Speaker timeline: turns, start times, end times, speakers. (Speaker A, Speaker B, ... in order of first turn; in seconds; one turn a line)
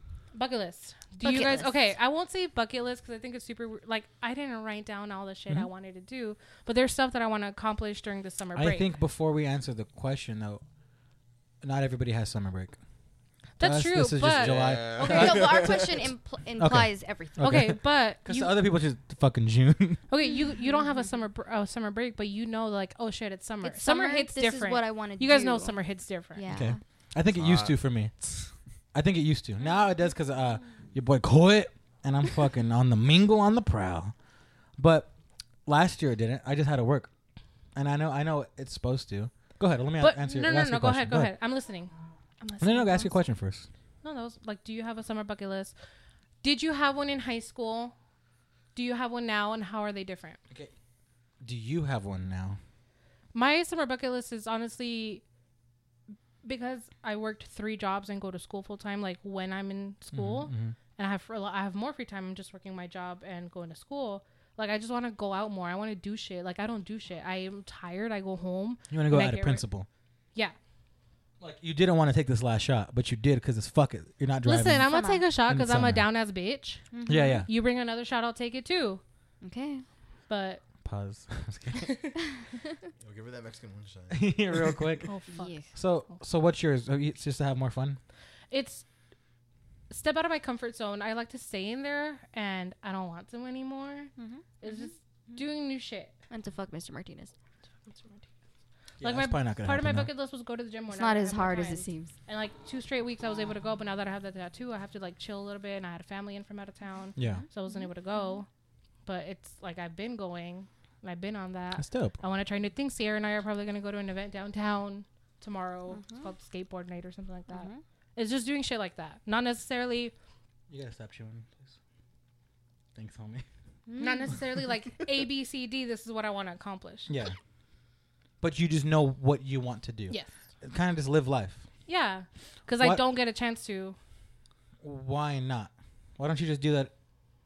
Speaker A: 0.3-8.9
Speaker B: 1.2-1.8
Speaker C: 8.5-10.6
Speaker C: 11.6-12.8
Speaker A: 13.6-15.5
Speaker C: 13.6-15.5
Speaker D: 14.3-16.1
Speaker B: 15.0-17.6
Speaker C: 16.6-20.0
Speaker A: 17.4-18.5
Speaker A: 20.1-26.4
Speaker B: 20.3-21.1
Speaker B: 23.6-25.8
Speaker B: 26.3-26.8
Speaker C: 26.5-28.1
Speaker D: 27.3-28.5
Speaker C: 28.9-34.1
Speaker C: 34.8-35.1
Speaker C: 35.6-37.1
Speaker C: 37.7-41.3
Speaker A: 40.0-43.1
Speaker C: 42.6-43.7
Speaker A: 44.0-45.7
Speaker A: 46.4-47.9
Speaker A: 48.7-50.4
Speaker C: 51.4-52.6
Speaker A: 53.3-55.2
Speaker A: 56.4-69.6
Speaker C: 60.1-60.7
Speaker C: 68.9-69.9
Speaker C: 71.4-74.9
Speaker A: 74.4-76.9
Speaker B: 74.8-75.2
Speaker C: 75.4-76.0
Speaker B: 76.9-77.5
Speaker C: 77.1-77.5
Speaker A: 77.5-79.0
Speaker B: 79.4-79.8
Speaker A: 80.3-80.6
Speaker C: 80.8-81.9
Speaker A: 81.7-82.1
Speaker B: 82.2-82.9
Speaker D: 83.0-84.8
Speaker C: 84.1-85.1
Speaker A: 85.0-85.5
Speaker B: 85.3-85.7
Speaker C: 85.7-88.0
Speaker A: 88.5-88.8
Speaker A: 89.9-96.1
Speaker B: 94.2-95.4
Speaker B: 96.3-97.3
Speaker A: 97.9-98.2
Speaker C: 99.0-100.1
Speaker A: 99.0-108.5
Speaker B: 100.9-102.1
Speaker C: 107.2-107.4
Speaker B: 107.2-108.4
Speaker A: 109.0-120.1
Speaker C: 111.8-112.2
Speaker B: 115.9-116.3
Speaker B: 117.5-117.8
Speaker C: 120.7-121.7
Speaker C: 122.9-123.4
Speaker B: 123.9-124.4
Speaker A: 124.0-127.1
Speaker C: 127.1-127.4
Speaker C: 128.4-131.6
Speaker A: 131.9-134.0
Speaker C: 134.8-136.9